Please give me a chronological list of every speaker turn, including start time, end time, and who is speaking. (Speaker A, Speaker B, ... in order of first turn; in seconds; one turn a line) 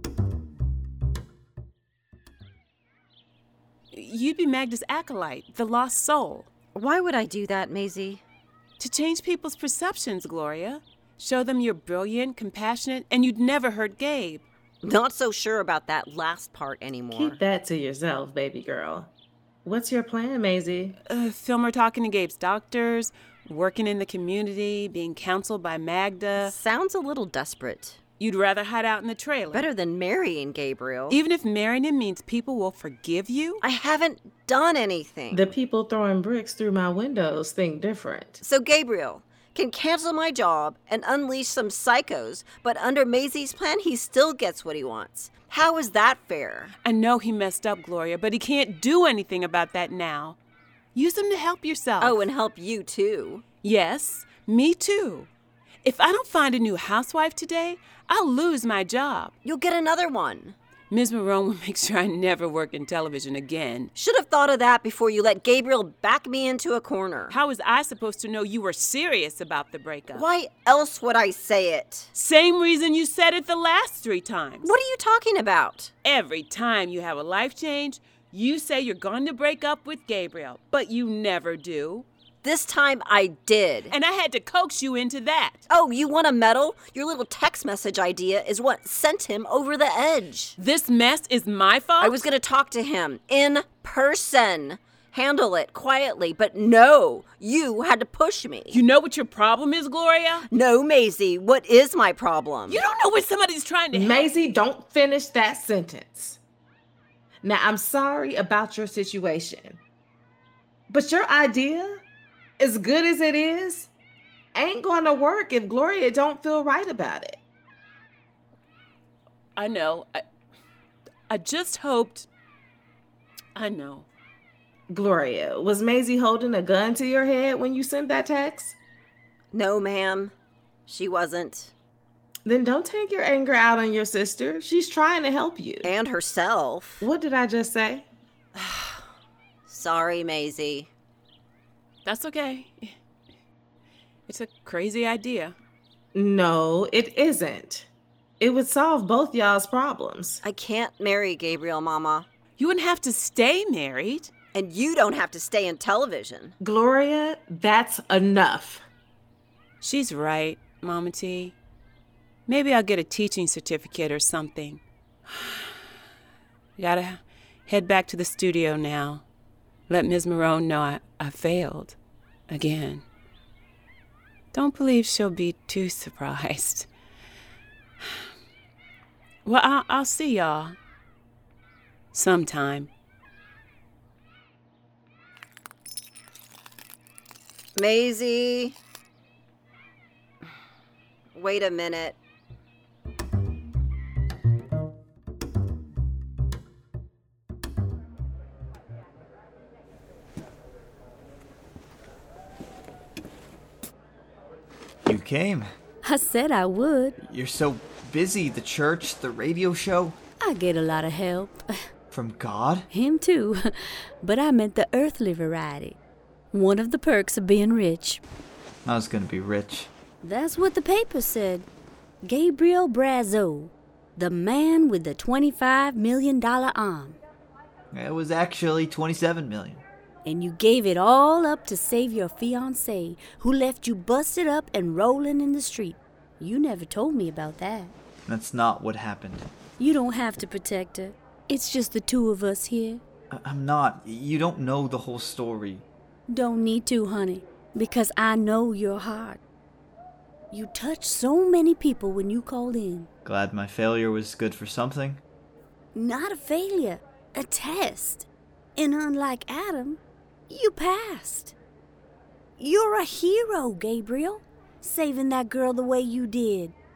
Speaker A: 3.9-6.5
Speaker B: 6.7-8.2
Speaker A: 8.8-14.4
Speaker B: 14.8-17.4
Speaker C: 17.1-19.1
Speaker C: 19.6-21.0
Speaker A: 21.1-26.5
Speaker B: 26.4-28.0
Speaker A: 28.2-29.7
Speaker B: 29.5-31.2
Speaker A: 31.1-33.6
Speaker B: 33.6-35.5
Speaker C: 35.3-38.4
Speaker B: 38.4-46.7
Speaker A: 46.8-50.4
Speaker A: 51.0-52.3
Speaker B: 52.0-53.4
Speaker A: 53.6-55.3
Speaker A: 55.8-59.3
Speaker B: 59.4-60.5
Speaker A: 60.9-63.9
Speaker B: 64.0-67.4
Speaker A: 67.3-70.3
Speaker B: 70.1-72.1
Speaker A: 72.1-74.7
Speaker B: 74.6-75.9
Speaker A: 76.0-82.1
Speaker B: 82.4-83.9
Speaker A: 83.9-85.7
Speaker B: 85.7-90.6
Speaker A: 90.6-92.2
Speaker B: 92.0-98.8
Speaker A: 98.7-100.5
Speaker B: 100.5-102.8
Speaker A: 102.7-104.3
Speaker C: 103.9-106.4
Speaker C: 107.4-109.8
Speaker C: 110.9-112.0
Speaker C: 112.6-113.9
Speaker C: 114.5-117.4
Speaker A: 119.5-120.2
Speaker A: 121.3-122.3
Speaker A: 123.5-124.1
Speaker C: 124.9-128.8
Speaker B: 129.5-130.3
Speaker B: 130.8-131.7
Speaker C: 132.4-135.9
Speaker B: 135.8-137.0
Speaker C: 137.0-138.1
Speaker B: 138.6-139.0
Speaker B: 139.7-140.9
Speaker A: 142.0-142.9
Speaker A: 144.3-145.6
Speaker C: 146.1-147.9
Speaker C: 148.4-150.4
Speaker B: 150.4-152.3
Speaker A: 152.6-154.3
Speaker B: 154.5-156.6
Speaker C: 156.6-158.8
Speaker A: 159.8-161.6
Speaker A: 162.5-165.8
Speaker A: 166.8-169.2
Speaker A: 169.9-172.0
Speaker A: 172.5-173.0
Speaker A: 174.5-176.9
Speaker A: 179.5-180.8
Speaker A: 182.1-182.9
Speaker B: 187.8-188.8
Speaker B: 191.3-192.2
Speaker D: 205.1-205.7
Speaker E: 206.0-207.2
Speaker D: 207.2-210.2
Speaker E: 210.4-211.7
Speaker D: 212.1-212.9
Speaker E: 212.9-216.0
Speaker E: 216.5-218.2
Speaker D: 218.8-219.9
Speaker E: 220.2-221.7
Speaker E: 222.2-227.2
Speaker D: 227.9-229.8
Speaker E: 230.2-237.9
Speaker D: 238.3-239.5
Speaker E: 239.8-243.0
Speaker D: 243.3-245.8
Speaker E: 246.3-249.4
Speaker E: 250.5-253.1
Speaker D: 253.2-255.2
Speaker E: 255.9-258.2
Speaker E: 258.8-261.5
Speaker E: 262.6-266.7